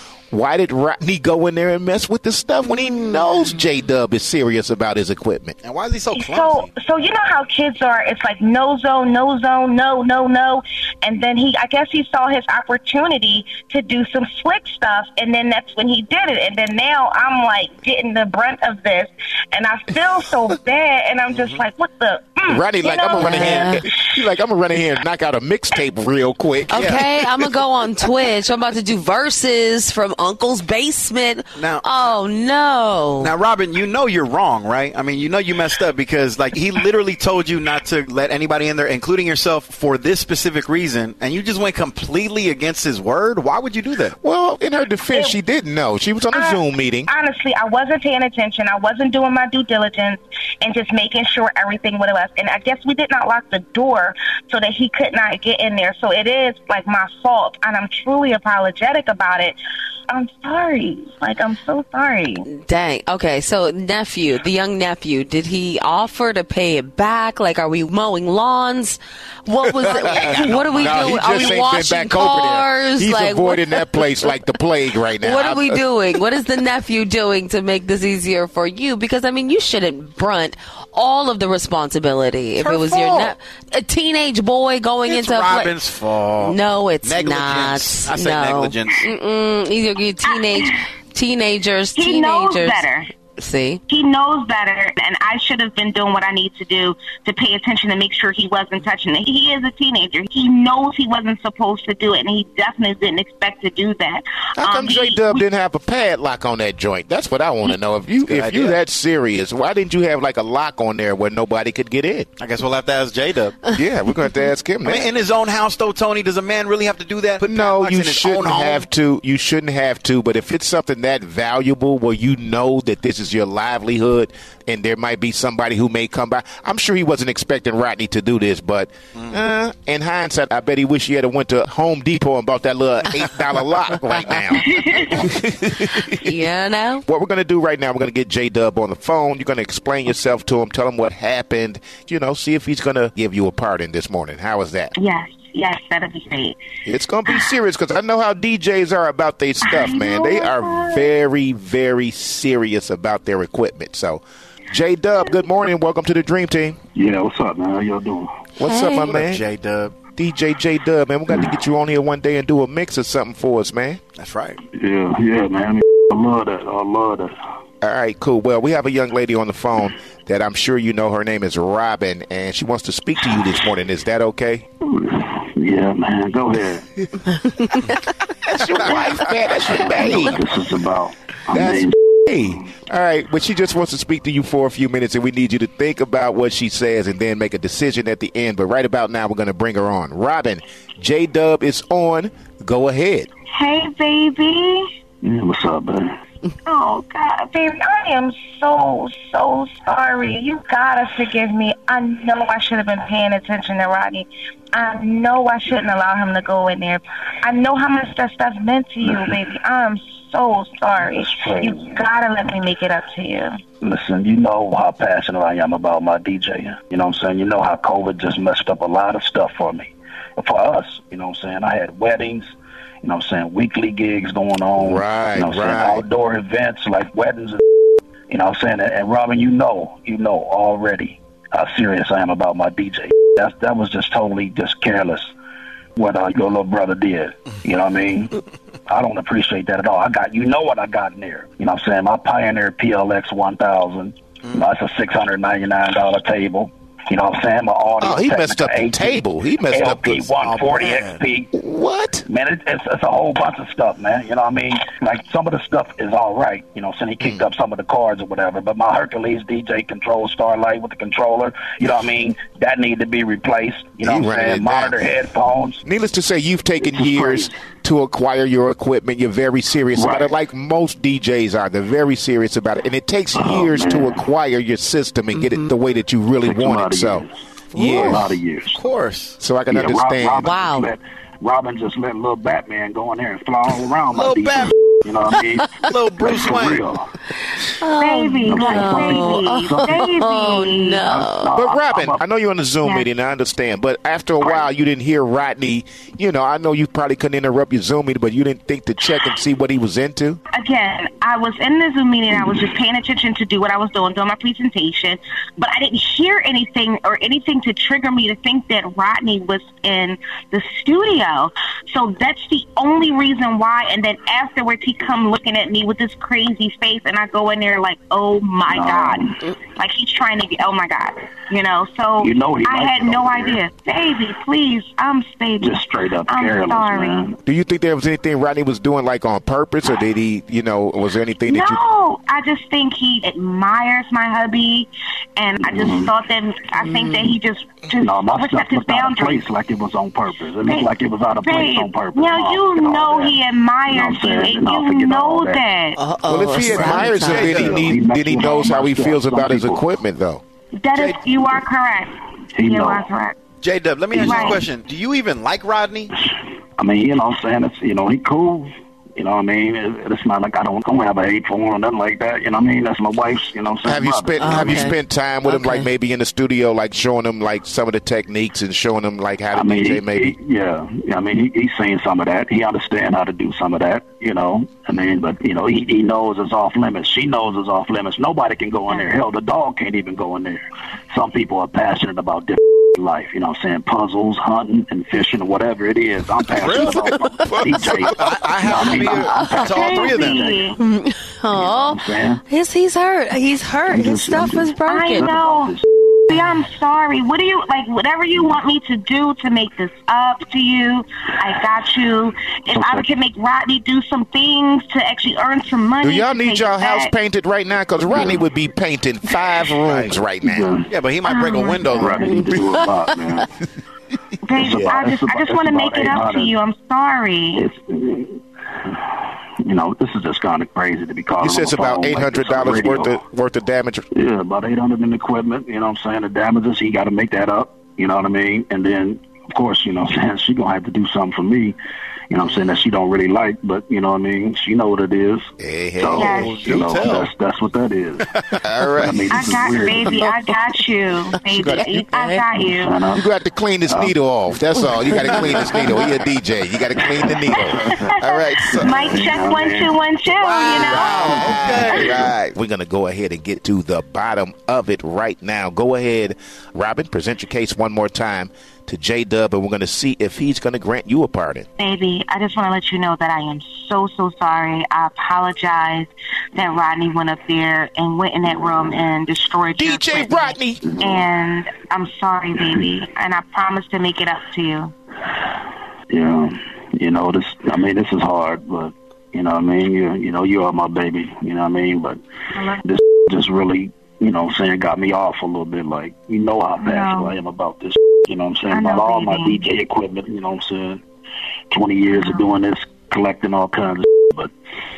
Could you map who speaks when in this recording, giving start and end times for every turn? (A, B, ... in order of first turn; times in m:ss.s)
0:00.3-0:05.6 A
0:05.6-0:06.7 B
0:06.1-0:24.2 C
0:22.5-0:27.0 A
0:23.2-0:23.8 D
0:26.7-0:33.4 D
0:26.7-0:27.0 B
0:31.6-0:32.1 B
0:33.2-0:44.2 B
0:44.2-0:47.1 A
0:46.3-0:59.6 C
1:00.1-1:02.4 C
1:02.4-1:14.4 D
1:09.8-1:15.9 A
1:09.9-1:10.6 C
1:10.5-1:11.1 B
1:15.2-1:25.8 D
1:22.6-1:23.3 B
1:25.0-1:29.1 B
1:26.4-1:33.8 D
1:30.4-1:30.8 C
1:32.0-1:33.1 C
1:33.9-1:45.4 C
1:44.6-1:52.3 A
1:48.2-1:48.8 B
1:52.4-1:53.6 B
1:53.7-1:55.1 A
1:54.8-1:58.8 B
1:57.4-2:16.2 A
2:14.5-2:15.3 C
2:16.0-2:17.0 D
2:17.1-2:24.9 A
2:25.0-2:26.6 C
2:26.8-2:36.8 A
2:29.6-2:31.1 C
2:36.9-2:38.3 E
2:38.6-2:39.4 A
2:38.6-2:39.1 D
2:39.0-2:40.0 B
2:40.1-2:44.0 A
2:44.2-2:44.6 B
2:44.7-2:47.3 E
2:47.8-2:54.6 A
2:54.8-2:56.8 E
2:58.4-3:00.4 A
2:59.7-3:01.9 E
3:01.5-3:13.3 A
3:13.5-3:14.8 C
3:15.2-3:16.1 E
3:16.6-3:33.5 C
3:31.0-3:31.9 E
3:33.8-3:42.5 E
3:43.0-3:47.6 E
3:44.8-3:46.0 A
3:48.3-3:55.3 E
3:56.0-4:11.5 E
4:08.0-4:10.3 A
4:10.4-4:11.2 B
4:11.5-4:12.3 A
4:12.3-4:25.8 E
4:24.0-4:25.0 A
4:25.8-4:38.3 A
4:26.8-4:27.5 E
4:30.0-4:30.4 E
4:33.3-4:34.2 E
4:35.3-4:35.7 D
4:36.4-4:37.4 E
4:37.8-4:38.2 B
4:37.9-4:38.8 E
4:38.7-4:39.4 B
4:39.4-4:40.4 A
4:39.7-4:47.1 E
4:40.4-4:40.9 D
4:44.1-4:44.7 B
4:45.7-4:46.8 B
4:47.8-4:51.5 D
4:48.0-4:51.0 C
4:48.4-4:50.1 E
4:51.1-4:52.2 E
4:51.5-5:00.4 A
4:54.4-4:54.7 E
5:00.5-5:27.2 C
5:18.7-5:19.4 E
5:22.2-5:23.6 E
5:25.6-5:27.4 E
5:27.4-5:31.8 A
5:31.5-5:39.5 C
5:35.6-5:36.1 E
5:36.8-5:37.3 D
5:38.0-5:45.6 E
5:40.6-5:46.0 C
5:46.0-5:47.5 D
5:46.3-5:50.4 A
5:46.7-5:47.8 B
5:46.8-5:49.8 E
5:50.8-5:53.4 C
5:52.5-5:53.1 E
5:53.6-5:56.2 B
5:54.1-5:54.5 E
5:54.1-5:54.6 C
5:56.8-6:04.9 E
6:03.8-6:10.3 A
6:04.4-6:05.9 D
6:09.5-6:30.6 E
6:18.8-6:19.1 C
6:26.5-6:30.6 B
6:27.4-6:28.1 A
6:28.6-6:30.8 C
6:29.1-6:29.8 D
6:30.8-6:35.3 D
6:31.5-6:32.4 E
6:33.9-6:35.8 E
6:34.8-6:35.8 C
6:36.3-6:47.1 C
6:42.7-6:43.1 E
6:46.0-6:50.7 A
6:48.1-6:48.4 E
6:49.8-6:50.2 B
6:50.4-6:50.9 E
6:50.9-6:52.7 B
6:51.2-6:52.1 C
6:51.9-6:53.5 E
6:54.4-6:57.7 C
6:54.5-6:56.5 E
6:54.6-6:54.9 A
6:57.6-7:03.2 E
7:01.4-7:04.0 A
7:04.1-7:11.8 E
7:12.3-7:18.2 E
7:12.4-7:12.8 B
7:15.6-7:17.1 A
7:16.1-7:16.8 C
7:16.4-7:17.3 B
7:18.2-7:19.1 B
7:18.6-7:19.4 A
7:19.0-7:20.2 E
7:19.3-7:23.0 C
7:21.5-7:22.1 A
7:22.0-7:22.4 D
7:22.6-7:23.2 E
7:23.1-7:29.1 A
7:23.9-7:24.1 E
7:25.1-7:26.1 B
7:27.5-7:32.1 C
7:27.5-7:28.1 E
7:28.7-7:29.9 E
7:30.4-7:32.3 B
7:30.7-7:41.7 A
7:31.6-7:32.0 E
7:41.8-7:54.9 C
7:49.7-7:50.8 A
7:50.8-7:51.3 E
7:56.1-8:02.2 E
8:02.6-8:02.8 C
8:02.8-8:11.0 E
8:06.8-8:07.4 C
8:08.7-8:09.6 C
8:11.7-8:14.5 E
8:12.1-8:12.6 C